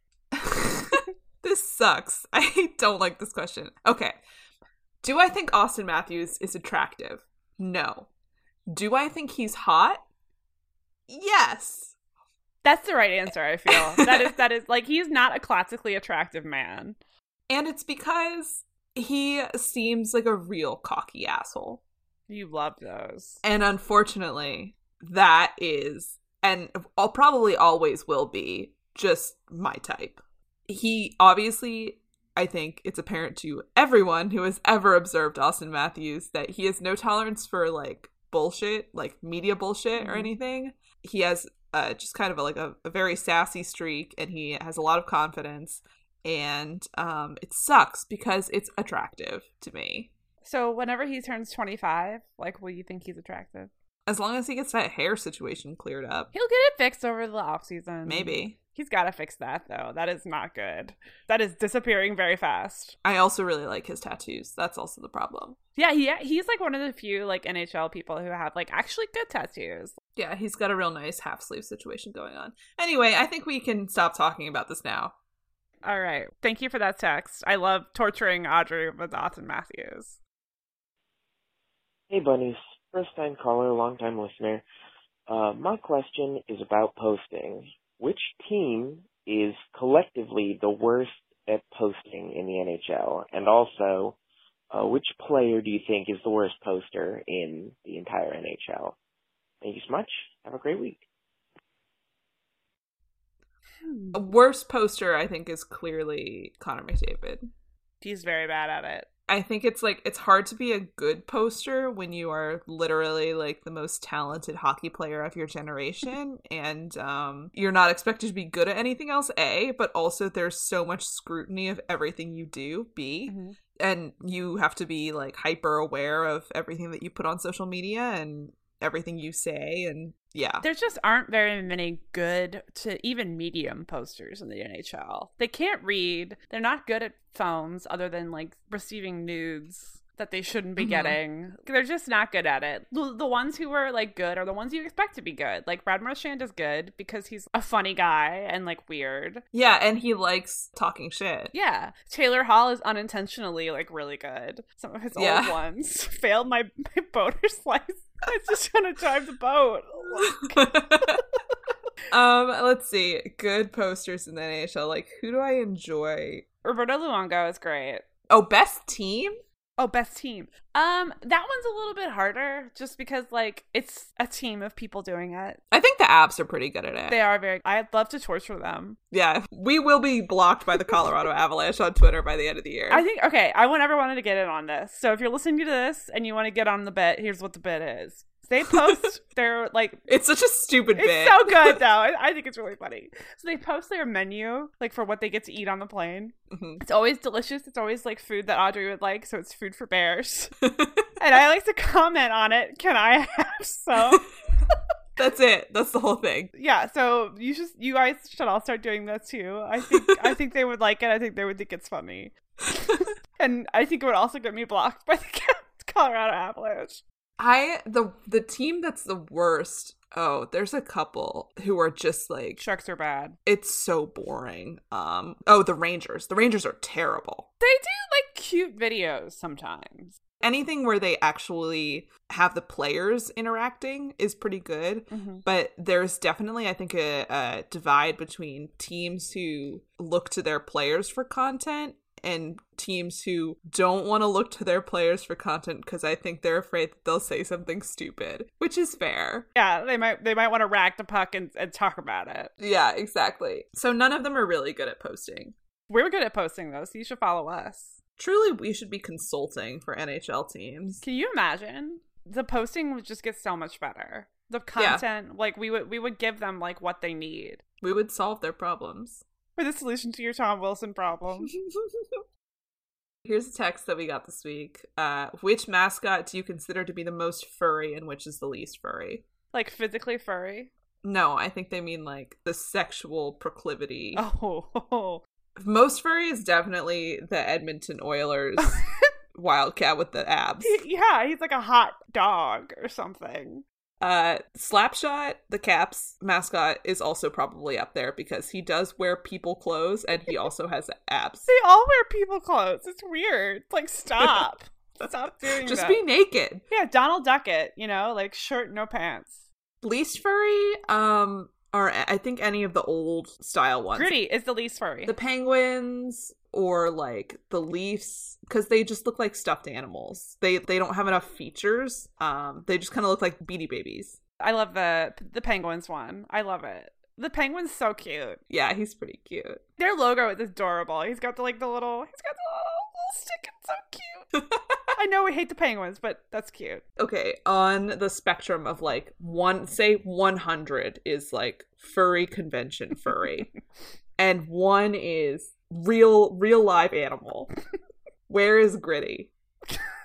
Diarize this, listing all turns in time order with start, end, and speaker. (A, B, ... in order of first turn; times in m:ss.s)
0:00.3-0:04.2 A
0:05.0-0:08.1 A
0:08.7-0:10.0 A
0:11.1-0:11.9 A
0:12.6-0:17.0 B
0:13.7-0:14.3 A
0:17.5-0:21.8 A
0:22.3-0:23.4 B
0:23.4-0:50.1 A
0:40.0-0:40.3 B
0:50.4-0:53.7 B
0:54.1-0:56.3 A
0:56.3-1:03.0 B
0:58.0-0:58.6 A
1:03.0-1:05.6 A
1:05.8-1:10.0 B
1:10.2-1:15.1 A
1:15.8-1:20.2 B
1:22.1-1:24.6 C
1:25.3-1:34.2 C
1:34.7-1:39.0 C
1:39.6-1:41.0 C
1:43.8-1:44.2 B
1:44.1-1:47.4 A
1:48.0-1:49.1 B
1:49.3-2:10.6 A
2:03.3-2:03.6 B
2:10.6-2:29.4 B
2:20.8-2:21.2 A
2:29.5-2:31.5 A
2:31.5-2:40.7 B
2:35.2-2:35.5 A
2:40.2-2:41.2 A
2:42.1-2:46.4 A
2:46.6-2:48.0 B
2:48.3-2:49.4 A
2:49.8-2:55.6 B
2:55.7-2:57.2 A
2:57.1-2:59.0 B
2:59.1-3:03.0 A
3:02.9-3:10.0 B
3:10.1-3:11.8 A
3:11.0-3:20.5 B
3:16.5-3:16.8 A
3:20.6-3:21.1 A
3:21.2-3:24.3 B
3:25.2-3:26.5 A
3:26.6-3:37.0 B
3:37.4-3:42.6 A
3:42.6-3:43.4 B
3:43.4-3:47.5 A
3:47.6-3:50.1 B
3:50.4-4:09.4 A
3:55.1-3:55.4 B
4:09.5-4:12.5 B
4:12.6-4:15.5 A
4:15.9-4:18.0 B
4:18.2-4:21.0 A
4:21.0-4:27.6 B
4:24.8-4:25.0 A
4:27.8-4:29.2 A
4:29.6-4:31.5 B
4:31.5-4:32.2 A
4:33.2-4:39.2 A
4:39.5-4:40.7 B
4:41.0-4:44.2 A
4:44.1-4:45.2 B
4:45.6-4:48.8 A
4:49.3-4:50.8 A
4:50.6-4:53.6 B
4:54.0-5:01.5 A
5:01.5-5:06.0 B
5:05.5-5:06.6 A
5:06.7-5:09.4 B
5:09.8-5:14.1 A
5:13.9-5:15.1 B
5:15.0-5:24.2 A
5:24.4-5:28.4 B
5:28.5-5:29.6 A
5:29.8-5:34.2 B
5:34.3-5:34.9 A
5:34.9-5:36.8 B
5:37.0-5:43.5 A
5:44.2-5:47.5 A
5:48.3-5:49.3 A